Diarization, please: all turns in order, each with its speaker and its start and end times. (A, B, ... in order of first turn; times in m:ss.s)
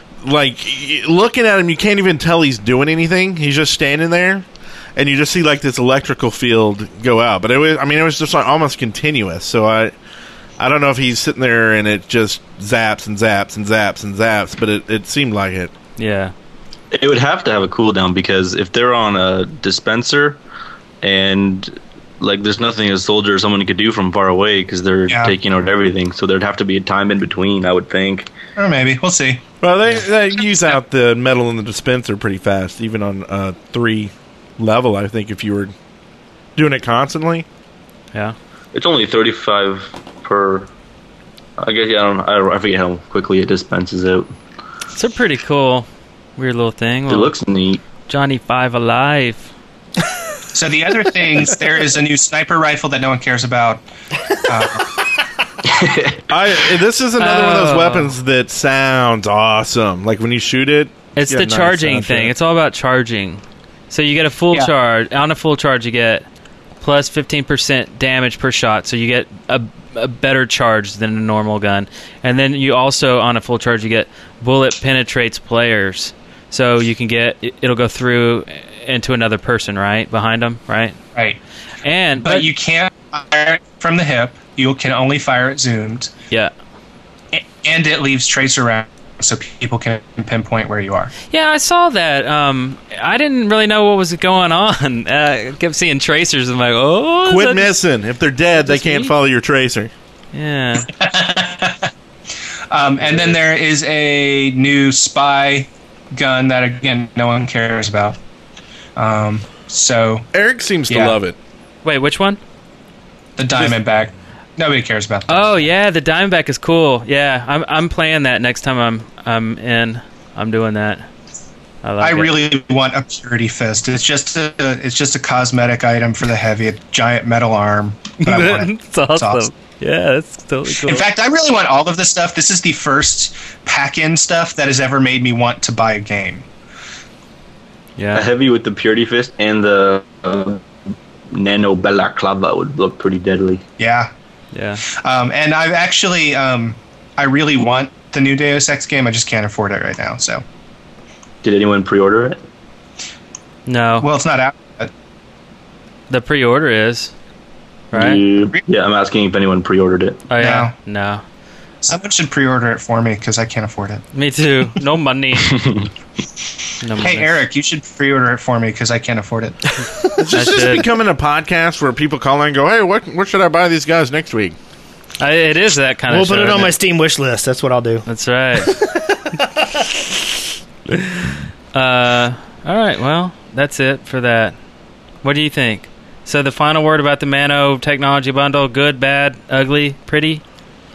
0:00.2-0:10.0 A
0:10.6-0:15.7 A
0:16.0-0:16.3 B
0:16.9-0:20.4 C
0:21.0-0:28.3 C
0:25.1-0:25.4 D
0:28.6-0:29.4 D
0:29.6-0:35.7 A
0:36.6-0:37.5 A
0:38.7-0:40.7 C
0:41.6-0:44.3 C
0:45.0-0:47.3 B
0:47.1-0:47.8 C
0:48.1-0:49.5 B
0:50.5-0:53.8 D
0:54.5-0:55.0 D
0:55.6-0:56.2 C
0:56.3-1:02.3 A
0:57.2-0:58.2 B
1:01.2-1:06.2 B
1:06.8-1:21.0 B
1:21.8-1:22.5 B
1:22.2-1:26.1 D
1:27.3-1:31.1 D
1:31.3-1:37.8 B
1:37.2-1:39.9 A
1:38.6-1:39.1 B
1:40.3-1:40.9 B
1:40.8-1:41.9 D
1:42.7-1:48.2 D
1:49.0-1:50.3 D
1:50.3-1:51.4 A
1:50.9-1:51.2 D
1:51.8-1:52.4 B
1:53.4-1:55.7 D
1:53.5-1:53.8 A
1:55.3-2:01.1 B
2:01.8-2:02.4 B
2:02.0-2:09.5 D
2:08.2-2:11.1 B
2:10.7-2:16.5 D
2:18.0-2:18.3 B
2:18.1-2:20.6 C
2:21.3-2:23.6 C
2:23.8-2:24.1 D
2:24.5-2:24.8 B
2:24.9-2:30.4 D
2:31.4-2:32.4 C
2:33.7-2:34.1 B
2:34.0-2:34.9 D
2:36.1-2:37.1 B
2:37.9-2:40.3 C
2:37.9-2:38.2 B
2:40.3-2:41.2 B
2:40.4-2:40.7 D
2:41.8-2:44.0 D
2:44.1-2:45.7 B
2:45.5-2:45.9 C
2:46.8-2:47.4 B
2:47.0-2:49.8 D
2:50.2-2:54.6 A
2:50.3-2:50.8 B
2:55.2-2:56.8 B
2:56.1-2:58.0 E
2:58.1-2:58.8 B
2:58.7-2:59.6 E
3:01.2-3:04.6 B
3:05.2-3:10.4 B